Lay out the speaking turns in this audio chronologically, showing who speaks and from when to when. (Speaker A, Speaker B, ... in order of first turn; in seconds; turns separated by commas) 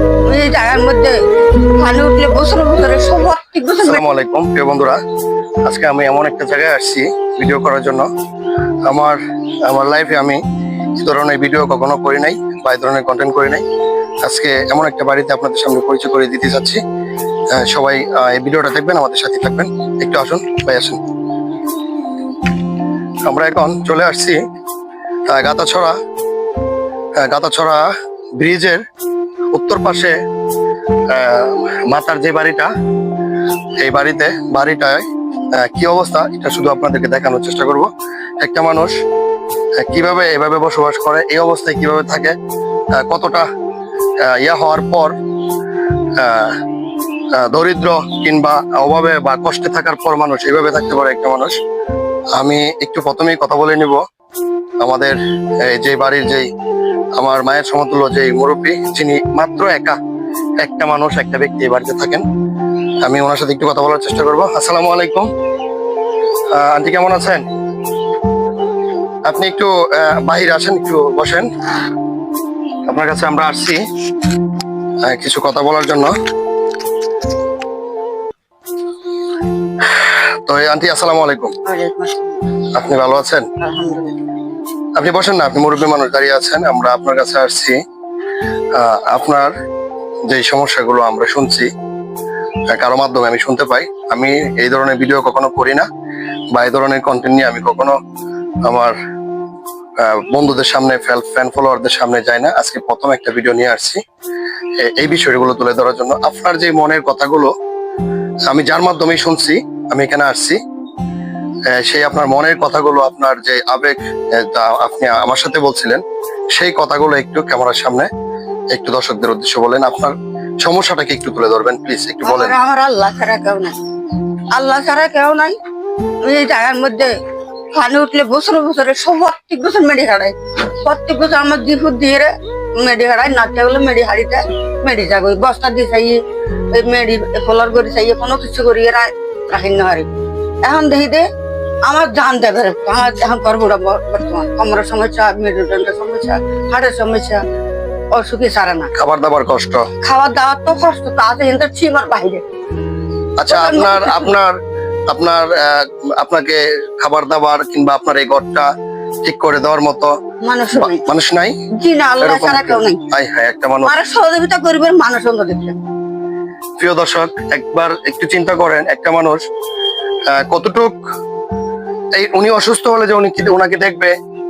Speaker A: 0.3-1.2, Speaker A: 1.8-4.0, Speaker B: 3.9-5.0, Speaker B: 5.7-8.1, Speaker B: 8.9-10.4, Speaker B: 11.0-13.6, Speaker B: 14.2-16.8, Speaker B: 17.5-21.0, Speaker B: 23.2-24.4, Speaker B: 25.3-25.9, Speaker B: 27.2-27.9, Speaker B: 28.4-28.8, Speaker B: 29.5-30.1, Speaker B: 31.1-32.7, Speaker B: 33.8-38.9, Speaker B: 39.8-42.4, Speaker B: 43.0-43.5, Speaker B: 44.2-45.1, Speaker B: 46.2-46.6, Speaker B: 47.4-51.5, Speaker B: 52.4-54.0, Speaker B: 54.8-56.5, Speaker B: 57.2-60.0, Speaker B: 60.6-62.2, Speaker B: 63.0-65.3, Speaker B: 66.5-67.5, Speaker B: 69.3-71.5, Speaker B: 72.9-73.8, Speaker B: 75.0-76.1, Speaker B: 79.8-81.5, Speaker A: 81.7-82.4, Speaker B: 82.7-83.5, Speaker A: 83.6-84.2, Speaker B: 85.0-87.8, Speaker B: 88.7-89.5, Speaker B: 90.3-91.7, Speaker B: 92.7-95.9, Speaker B: 96.5-98.0, Speaker B: 98.7-99.0, Speaker B: 100.0-104.0, Speaker B: 104.8-107.5, Speaker B: 108.5-110.6, Speaker B: 111.7-116.0, Speaker B: 116.5-118.1, Speaker B: 118.7-122.6, Speaker A: 122.2-123.8, Speaker A: 124.5-125.6, Speaker A: 126.2-127.1, Speaker A: 127.7-136.2, Speaker A: 136.7-140.1, Speaker A: 140.6-141.2, Speaker A: 141.8-147.4, Speaker A: 148.1-148.9, Speaker B: 148.9-149.9, Speaker A: 150.0-152.4, Speaker B: 153.4-154.6, Speaker A: 153.5-154.3, Speaker B: 155.1-158.7, Speaker B: 159.2-160.1, Speaker A: 160.4-161.0, Speaker B: 160.7-161.5, Speaker A: 161.8-163.0, Speaker B: 162.2-164.0, Speaker A: 163.8-165.8, Speaker B: 166.8-169.4, Speaker B: 170.3-170.9, Speaker B: 172.2-174.1